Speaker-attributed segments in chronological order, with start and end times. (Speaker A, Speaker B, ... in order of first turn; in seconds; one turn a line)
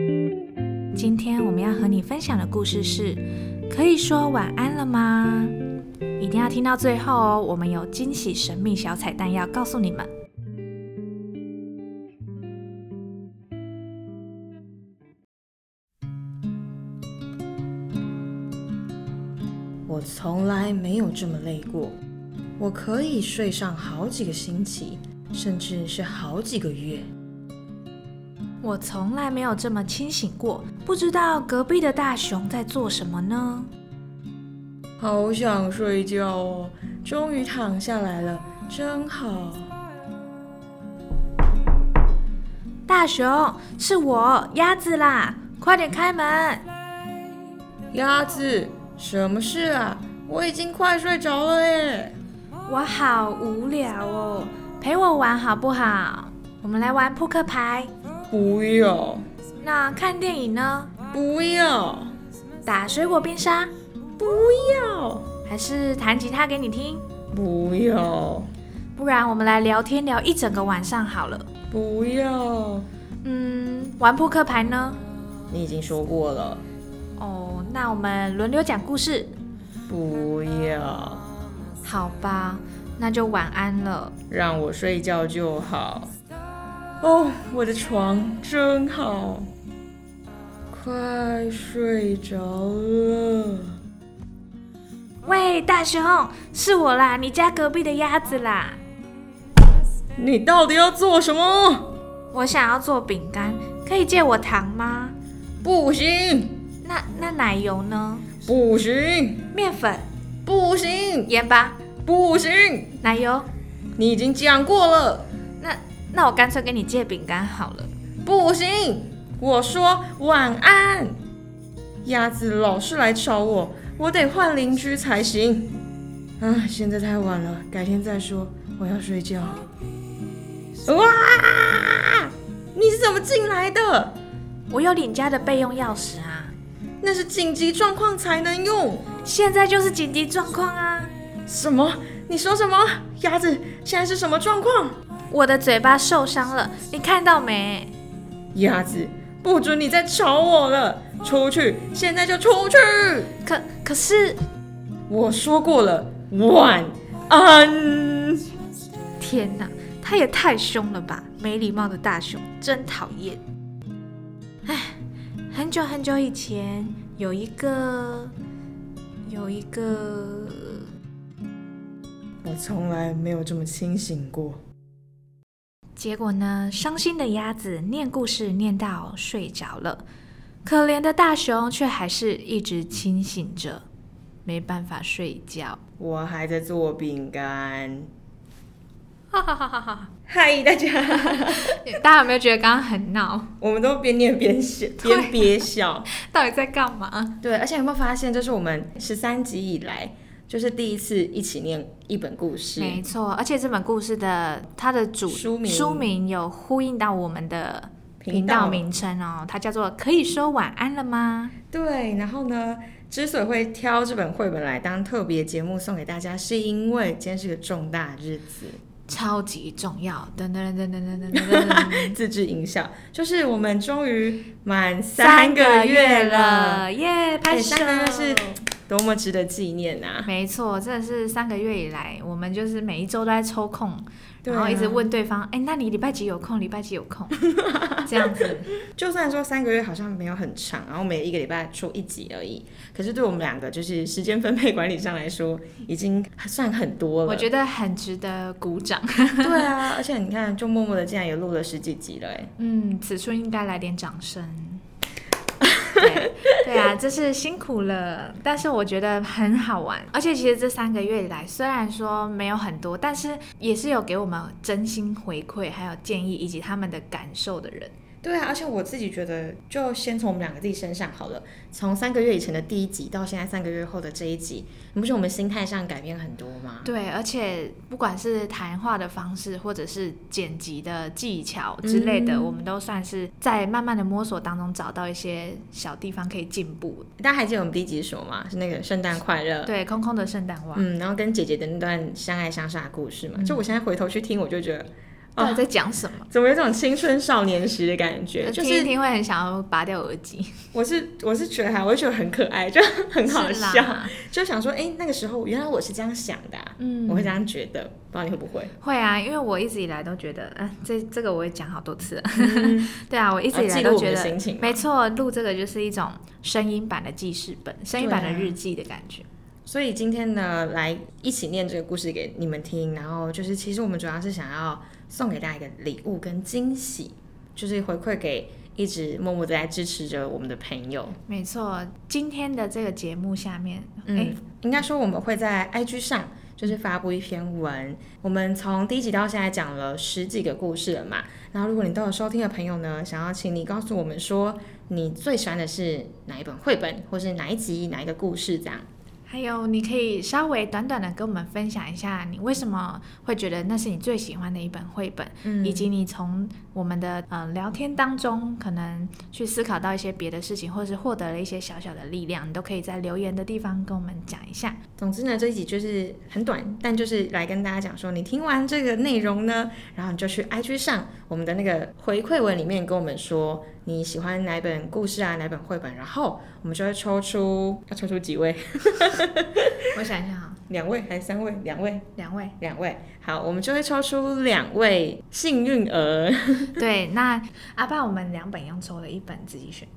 Speaker A: 0.9-5.6
Speaker A: 6.2-10.1
Speaker B: 19.9-21.9
Speaker B: 22.6-27.1
Speaker A: 28.6-33.7
Speaker B: 35.0-39.7
Speaker A: 42.9-46.6
Speaker B: 47.9-52.1
Speaker A: 52.7-57.9
Speaker B: 58.3-59.3
Speaker A: 59.6-60.9
Speaker B: 61.1-62.1
Speaker A: 62.6-63.7
Speaker B: 64.2-65.3
Speaker A: 65.5-67.0
Speaker B: 67.3-68.5
Speaker A: 69.0-71.5
Speaker B: 71.7-72.9
Speaker A: 73.2-75.0
Speaker B: 75.5-76.6
Speaker A: 77.2-79.3
Speaker B: 79.9-81.2
Speaker A: 81.8-84.2
Speaker B: 84.3-86.1
Speaker B: 87.0-89.5
Speaker B: 90.7-93.7
Speaker A: 95.2-98.8
Speaker B: 100.2-101.9
Speaker A: 102.3-105.2
Speaker B: 105.6-106.6
Speaker A: 106.8-108.3
Speaker B: 108.5-109.5
Speaker A: 109.5-110.0
Speaker B: 110.5-111.3
Speaker A: 111.3-111.8
Speaker B: 112.0-113.0
Speaker A: 113.0-113.5
Speaker B: 114.0-115.3
Speaker A: 115.6-117.9
Speaker B: 118.2-121.2
Speaker B: 122.0-125.7
Speaker B: 126.4-129.7
Speaker B: 130.8-134.2
Speaker A: 134.7-136.6
Speaker B: 137.0-139.1
Speaker A: 139.2-141.1
Speaker B: 141.5-145.0
Speaker A: 145.3-147.9
Speaker B: 148.5-153.3
Speaker A: 153.4-154.4
Speaker B: 155.1-158.4
Speaker A: 159.2-163.4
Speaker A: 164.7-165.0
Speaker A: 165.5-168.3
Speaker A: 169.3-170.9
Speaker B: 172.4-174.6
Speaker A: 176.0-180.1
Speaker A: 180.7-183.8
Speaker A: 184.5-185.8
Speaker B: 186.0-188.1
Speaker A: 189.3-190.1
Speaker B: 190.3-191.9
Speaker A: 191.2-193.5
Speaker B: 193.6-196.1
Speaker A: 195.0-195.6
Speaker A: 196.1-197.4
Speaker B: 197.4-203.0
Speaker A: 202.8-211.5
Speaker B: 205.3-206.1
Speaker B: 208.2-208.8
Speaker B: 211.7-218.8
Speaker A: 219.1-222.2
Speaker B: 221.3-226.8
Speaker A: 225.2-228.6
Speaker B: 227.5-230.3
Speaker A: 230.3-238.7
Speaker B: 234.4-235.1
Speaker B: 237.5-238.0
Speaker B: 238.8-247.5
Speaker A: 247.3-249.7
Speaker B: 249.4-252.5
Speaker A: 252.6-254.8
Speaker B: 255.6-256.5
Speaker A: 255.9-267.9
Speaker B: 268.2-276.9
Speaker A: 276.9-287.1
Speaker B: 281.8-282.6
Speaker B: 287.2-289.7
Speaker A: 289.6-290.9
Speaker B: 290.8-295.7
Speaker A: 295.4-296.3
Speaker B: 296.3-298.9
Speaker A: 298.4-300.6
Speaker B: 300.7-308.7
Speaker A: 303.2-304.1
Speaker A: 306.8-307.4
Speaker A: 308.8-319.3
Speaker B: 312.4-312.9
Speaker B: 313.5-314.9
Speaker B: 318.0-318.6
Speaker B: 319.7-331.2
Speaker A: 331.3-334.4
Speaker B: 334.1-348.8
Speaker A: 349.3-364.8
Speaker B: 355.4-355.9
Speaker B: 365.0-379.9
Speaker A: 379.9-380.6
Speaker B: 380.7-382.1
Speaker A: 382.2-382.6
Speaker B: 382.6-386.8
Speaker A: 386.8-389.9